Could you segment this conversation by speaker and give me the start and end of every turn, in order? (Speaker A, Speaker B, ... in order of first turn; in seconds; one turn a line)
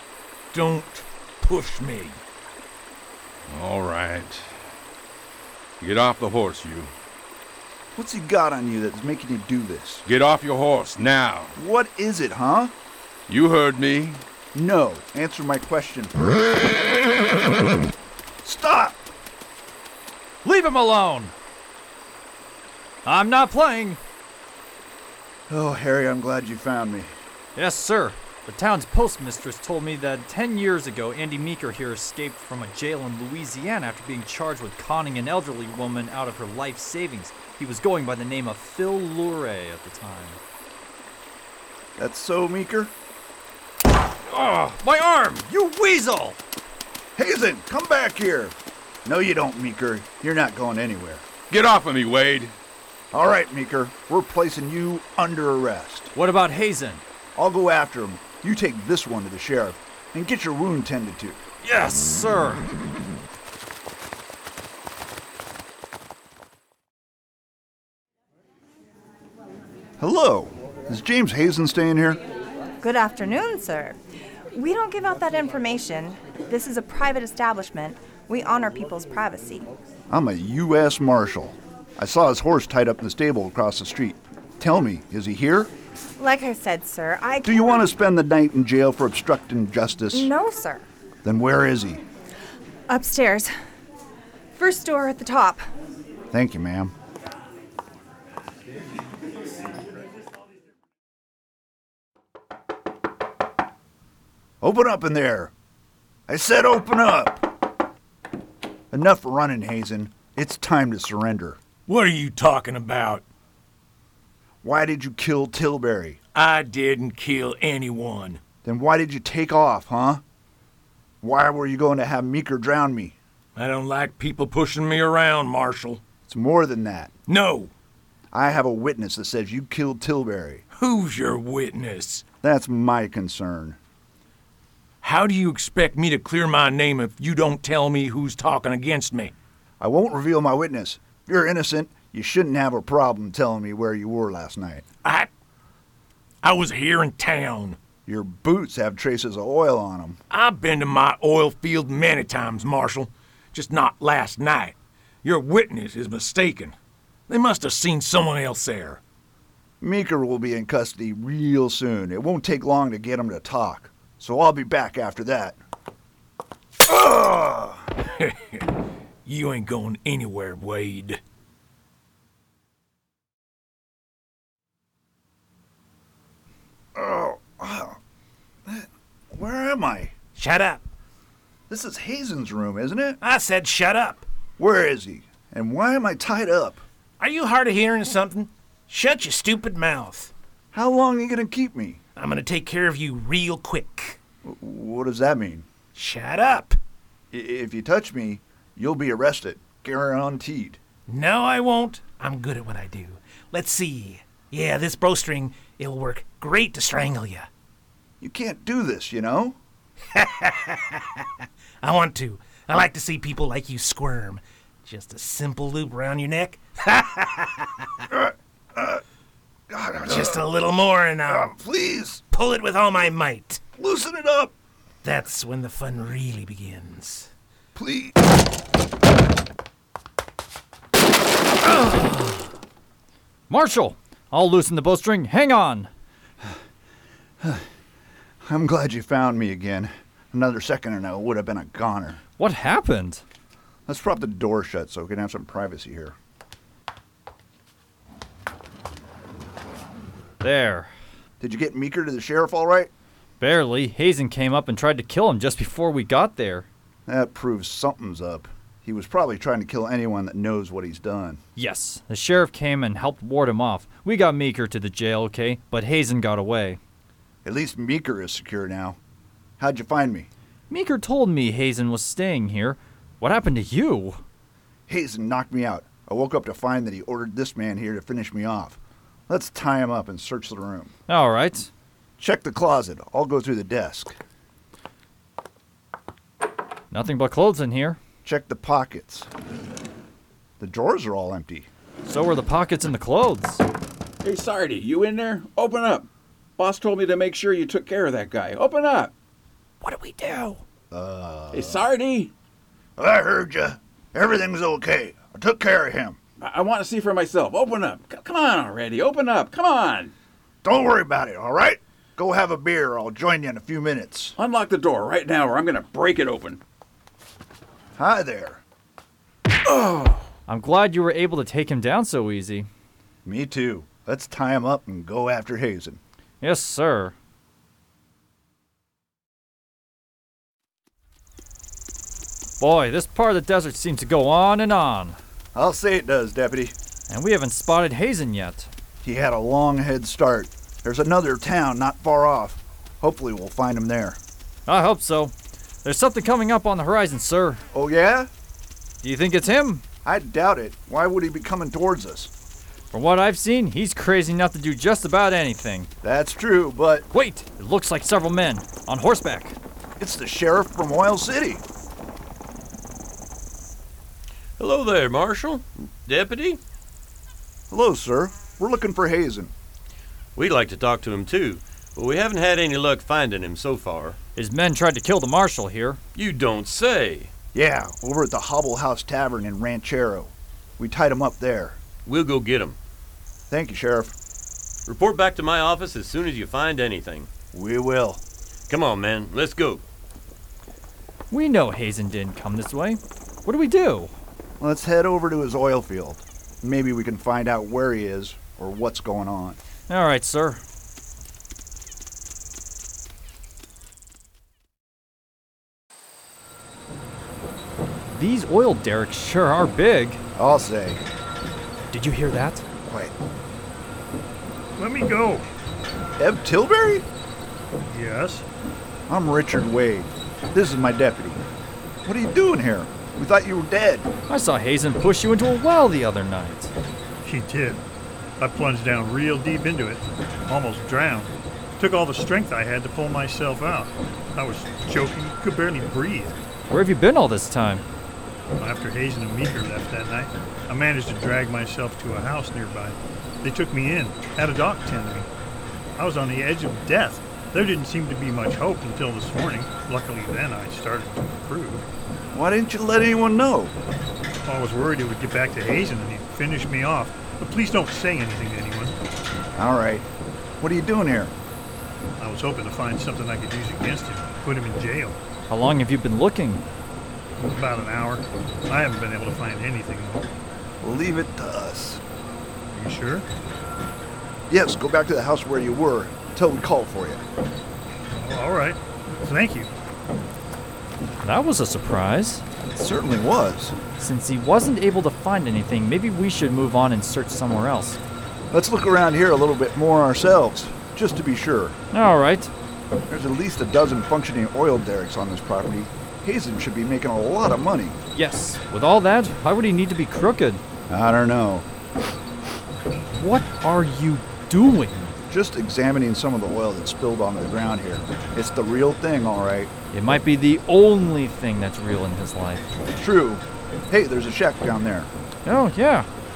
Speaker A: 0.5-2.2
Speaker B: 3.5-4.5
Speaker B: 5.8-6.9
Speaker C: 8.0-10.0
Speaker B: 10.1-11.5
Speaker C: 11.6-12.7
Speaker B: 13.3-14.2
Speaker C: 14.5-16.2
Speaker C: 18.4-19.1
Speaker D: 20.4-21.4
Speaker D: 23.1-24.0
Speaker C: 25.5-27.1
Speaker D: 27.6-40.4
Speaker C: 42.0-42.9
Speaker D: 44.3-46.4
Speaker C: 47.2-51.3
Speaker B: 51.5-52.5
Speaker C: 53.1-56.1
Speaker D: 56.1-57.0
Speaker C: 57.4-61.4
Speaker D: 61.6-62.7
Speaker C: 70.0-72.2
Speaker E: 72.8-74.0
Speaker E: 74.5-79.7
Speaker C: 80.1-85.7
Speaker E: 86.2-87.9
Speaker C: 87.4-90.3
Speaker E: 90.1-90.9
Speaker C: 91.2-92.0
Speaker E: 92.9-93.5
Speaker E: 94.5-95.7
Speaker C: 96.3-96.9
Speaker C: 104.6-105.5
Speaker C: 106.3-107.5
Speaker C: 108.9-111.6
Speaker A: 111.9-113.2
Speaker C: 114.6-116.2
Speaker A: 116.3-118.4
Speaker C: 118.6-120.2
Speaker C: 121.2-123.2
Speaker A: 123.6-126.0
Speaker C: 126.3-127.1
Speaker A: 127.3-127.7
Speaker C: 128.3-130.6
Speaker A: 130.8-132.2
Speaker C: 132.4-133.8
Speaker A: 135.0-139.3
Speaker C: 139.8-144.8
Speaker A: 145.0-145.3
Speaker A: 146.4-147.8
Speaker C: 148.1-150.2
Speaker A: 150.3-156.8
Speaker A: 157.3-159.0
Speaker C: 159.8-165.6
Speaker C: 166.8-167.9
Speaker A: 168.2-168.7
Speaker A: 169.3-171.2
Speaker C: 176.9-178.0
Speaker C: 178.7-180.1
Speaker F: 180.3-180.8
Speaker C: 181.7-183.2
Speaker F: 183.2-184.2
Speaker C: 184.6-186.8
Speaker F: 187.2-190.3
Speaker C: 190.7-192.0
Speaker F: 192.2-194.2
Speaker C: 194.4-195.7
Speaker F: 195.9-196.8
Speaker C: 197.3-200.8
Speaker F: 201.1-207.5
Speaker C: 208.2-209.6
Speaker F: 210.1-211.2
Speaker F: 211.8-217.9
Speaker C: 218.1-219.0
Speaker C: 219.7-220.4
Speaker F: 220.0-221.5
Speaker C: 221.3-222.2
Speaker F: 222.3-223.6
Speaker C: 223.8-224.5
Speaker F: 225.0-227.3
Speaker C: 227.8-228.2
Speaker D: 233.5-235.9
Speaker C: 238.4-242.2
Speaker D: 242.4-243.2
Speaker C: 243.9-246.2
Speaker D: 250.4-250.9
Speaker C: 251.4-252.9
Speaker D: 253.4-256.7
Speaker C: 257.1-261.4
Speaker D: 261.6-266.8
Speaker C: 267.4-269.0
Speaker C: 269.6-270.3
Speaker D: 270.7-274.2
Speaker C: 274.9-280.9
Speaker D: 281.1-281.7
Speaker C: 282.2-284.2
Speaker D: 286.9-288.0
Speaker C: 288.2-289.3
Speaker C: 290.6-291.7
Speaker D: 292.1-293.6
Speaker G: 294.2-299.1
Speaker F: 299.8-300.6
Speaker C: 300.9-301.9
Speaker G: 301.5-302.3
Speaker C: 303.0-306.2
Speaker G: 306.4-310.1
Speaker C: 310.6-314.4
Speaker G: 314.4-316.6
Speaker C: 318.0-318.6
Speaker G: 319.7-320.2
Speaker D: 320.5-322.7
Speaker C: 323.2-326.0
Speaker D: 326.4-327.1
Speaker D: 332.6-335.2
Speaker C: 335.6-336.8
Speaker D: 337.1-338.7
Speaker C: 339.0-344.2
Speaker D: 344.7-347.6
Speaker C: 347.7-348.3
Speaker D: 349.0-349.8
Speaker C: 350.1-352.3
Speaker D: 352.9-355.9
Speaker C: 356.0-357.1
Speaker D: 357.1-359.6
Speaker C: 360.0-361.6
Speaker H: 364.6-366.6
Speaker C: 367.7-369.5
Speaker H: 370.4-374.2
Speaker D: 374.4-376.0
Speaker H: 376.1-377.3
Speaker C: 377.5-381.8
Speaker H: 382.1-382.8
Speaker C: 383.5-384.1
Speaker H: 384.9-387.3
Speaker C: 387.5-388.2
Speaker H: 388.7-389.8
Speaker D: 391.3-394.1
Speaker C: 394.6-399.6
Speaker D: 399.9-400.6
Speaker D: 408.1-410.2
Speaker C: 410.4-411.0
Speaker D: 411.9-412.6
Speaker C: 412.8-413.1
Speaker I: 414.8-415.5
Speaker C: 416.2-417.1
Speaker I: 417.9-418.4
Speaker C: 419.1-421.4
Speaker C: 422.1-424.1
Speaker D: 424.3-426.7
Speaker I: 427.2-427.8
Speaker I: 428.4-436.4
Speaker D: 436.7-437.8
Speaker I: 438.6-445.3
Speaker I: 446.0-451.9
Speaker C: 452.3-453.8
Speaker I: 454.5-458.9
Speaker C: 459.6-460.1
Speaker C: 460.6-461.3
Speaker I: 462.2-465.2
Speaker D: 465.5-466.6
Speaker I: 467.4-470.3
Speaker C: 470.8-472.0
Speaker I: 472.7-473.3
Speaker C: 474.5-477.2
Speaker I: 478.1-479.7
Speaker D: 481.2-482.4
Speaker C: 482.7-483.8
Speaker D: 484.0-488.0
Speaker C: 488.5-491.8
Speaker D: 491.9-492.5
Speaker C: 493.1-498.0
Speaker D: 498.1-500.6
Speaker C: 500.9-501.7
Speaker D: 503.1-505.2
Speaker C: 505.3-509.7
Speaker D: 509.9-512.7
Speaker C: 513.0-515.1
Speaker D: 515.5-516.1